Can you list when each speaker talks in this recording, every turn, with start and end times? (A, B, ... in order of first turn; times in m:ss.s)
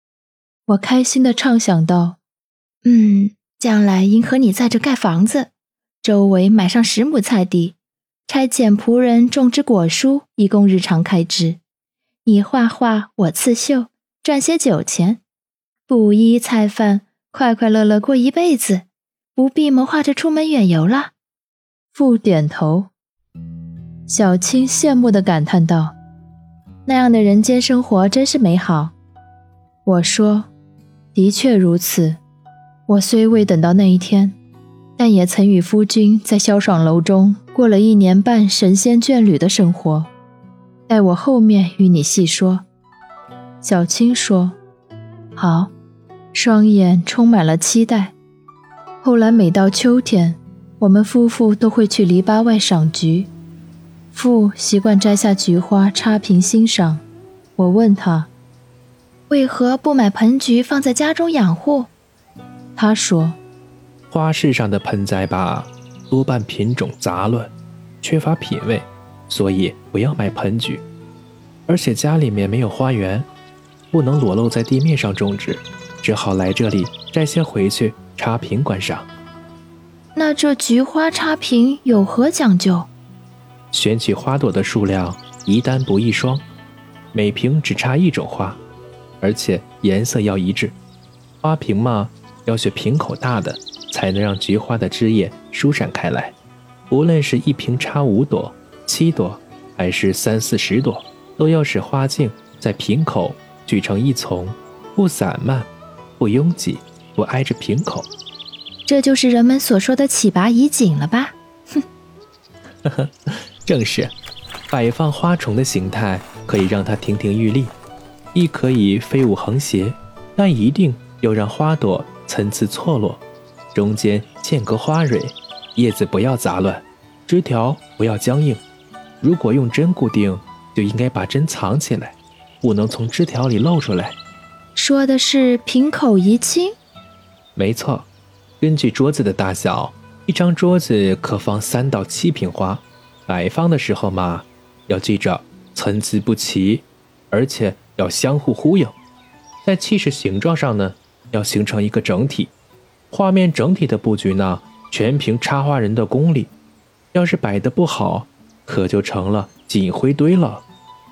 0:00.7-0:02.2 A
0:02.8-0:05.5 A
0:06.0-0:11.6 A
0:12.2-0:15.2 A
0:15.9-0:21.1 A
0:21.9-0:22.9 A
0:24.1-0:26.0 A
0:26.8-0:28.9 A
0:29.8-0:30.5 A
0:31.1-0:32.2 A
0:32.9-0:34.4 A
0:35.0-0:40.1 A
0:40.9-0:42.6 A
0:43.6-0:44.6 A
0:45.4-0:45.7 A
0:46.3-0:48.1 A
0:49.0-0:53.3 A
0:54.1-0:57.0 A
0:57.6-0:58.3 A
0:59.3-1:01.9 A
1:02.8-1:03.4 A
1:04.1-1:10.8 B
1:11.7-1:13.3 B
1:13.9-1:19.1 B
1:20.1-1:22.9 A
1:23.7-1:26.4 B
1:27.1-1:28.6 B
1:29.2-1:30.8 B
1:31.4-1:36.3 B
1:36.9-1:48.1 B
1:48.8-1:51.8 A
1:52.8-1:54.1 B
1:54.7-1:57.7 B
1:58.3-2:03.2 B
2:03.7-2:08.6 B
2:09.2-2:14.2 B
2:14.8-2:16.7 A
2:17.6-2:18.1 B
2:18.6-2:29.0 B
2:29.6-2:32.5 B
2:33.1-2:36.5 B
2:37.1-2:40.6 B